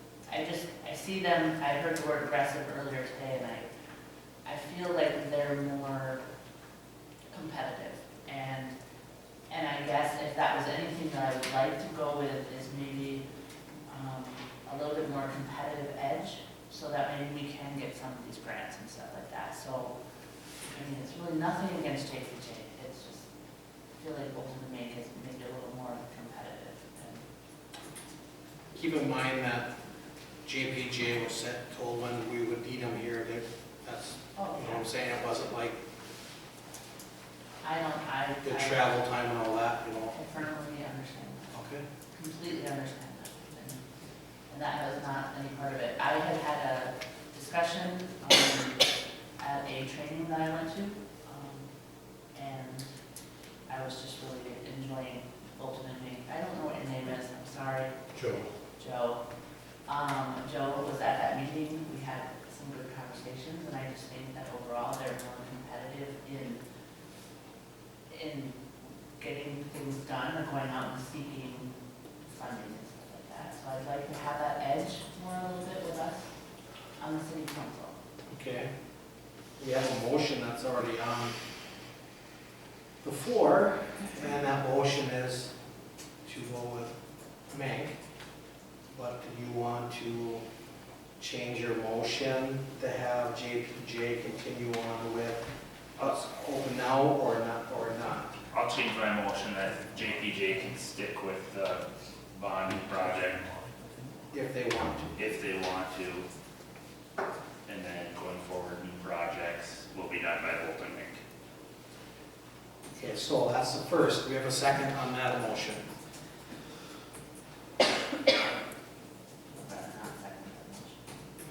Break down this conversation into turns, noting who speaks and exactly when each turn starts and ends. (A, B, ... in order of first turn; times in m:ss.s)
0:00.3-0:03.7 A
0:04.4-0:06.2 A
0:07.3-0:08.7 A
0:09.5-0:13.2 A
0:13.9-0:19.9 A
0:20.6-0:23.3 A
0:24.0-0:27.2 A
0:28.7-0:29.7 B
0:30.4-0:35.8 B
0:34.3-0:34.9 A
0:37.6-0:39.0 A
0:38.4-0:40.1 B
0:40.1-0:41.5 A
0:41.5-0:41.8 B
0:42.1-0:43.8 A
0:44.5-0:48.8 A
0:49.4-0:51.7 A
0:52.3-0:52.9 A
0:53.7-0:59.2 A
0:58.1-0:58.4 B
0:59.8-1:06.6 A
1:08.1-1:11.7 A
1:12.2-1:16.3 A
1:17.0-1:17.9 A
1:18.3-1:18.7 B
1:19.6-1:21.4 B
1:23.0-1:25.5 B
1:26.2-1:26.9 B
1:27.5-1:28.0 B
1:28.9-1:30.4 B
1:31.2-1:35.4 B
1:36.0-1:38.3 B
1:38.5-1:43.4 C
1:44.3-1:45.1 B
1:45.1-1:46.2 C
1:47.6-1:51.2 C
1:53.0-1:55.8 B
1:59.5-2:01.0 A